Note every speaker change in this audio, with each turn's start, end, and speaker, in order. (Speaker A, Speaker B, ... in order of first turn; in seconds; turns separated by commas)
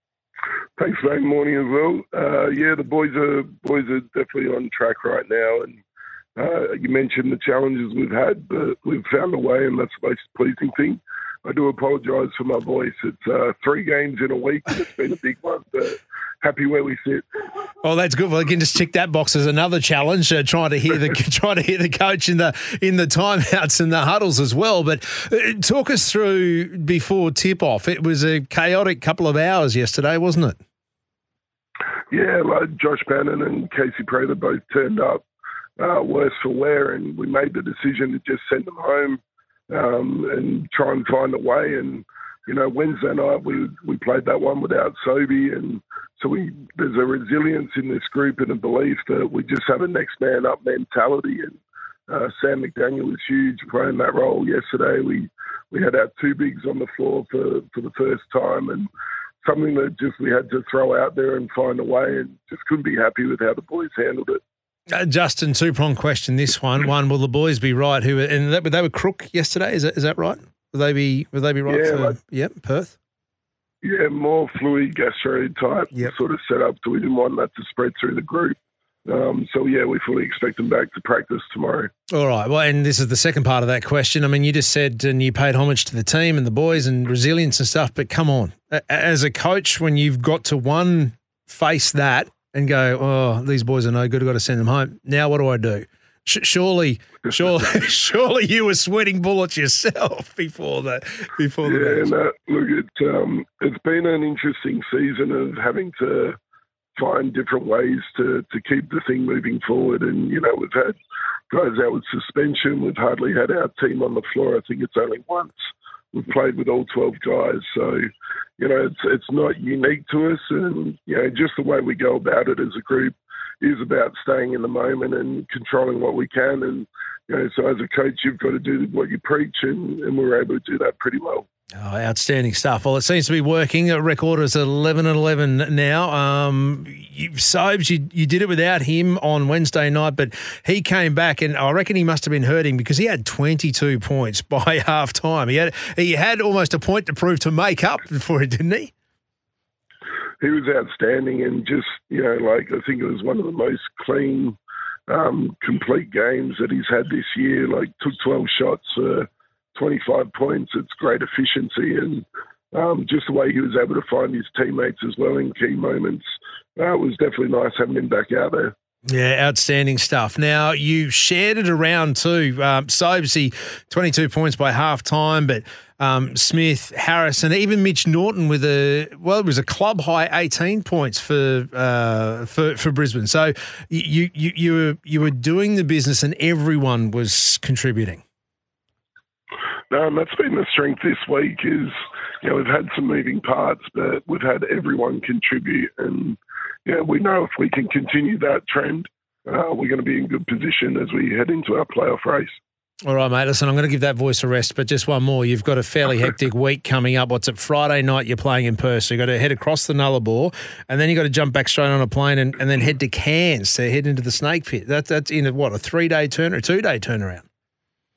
Speaker A: 0.8-5.8, Speaker A: 6.3-17.2, Speaker B: 17.8-30.6, Speaker A: 32.1-35.2, Speaker A: 35.8-58.9, Speaker A: 59.4-64.4, Speaker B: 64.9-73.0, Speaker A: 71.7-72.1, Speaker A: 73.8-81.9, Speaker B: 82.1-102.1, Speaker A: 101.6-106.4, Speaker A: 107.0-111.0, Speaker A: 111.5-131.5, Speaker B: 131.8-148.9, Speaker A: 150.4-154.6, Speaker A: 155.1-168.7, Speaker B: 169.1-188.2, Speaker A: 189.9-202.6, Speaker B: 203.1-217.4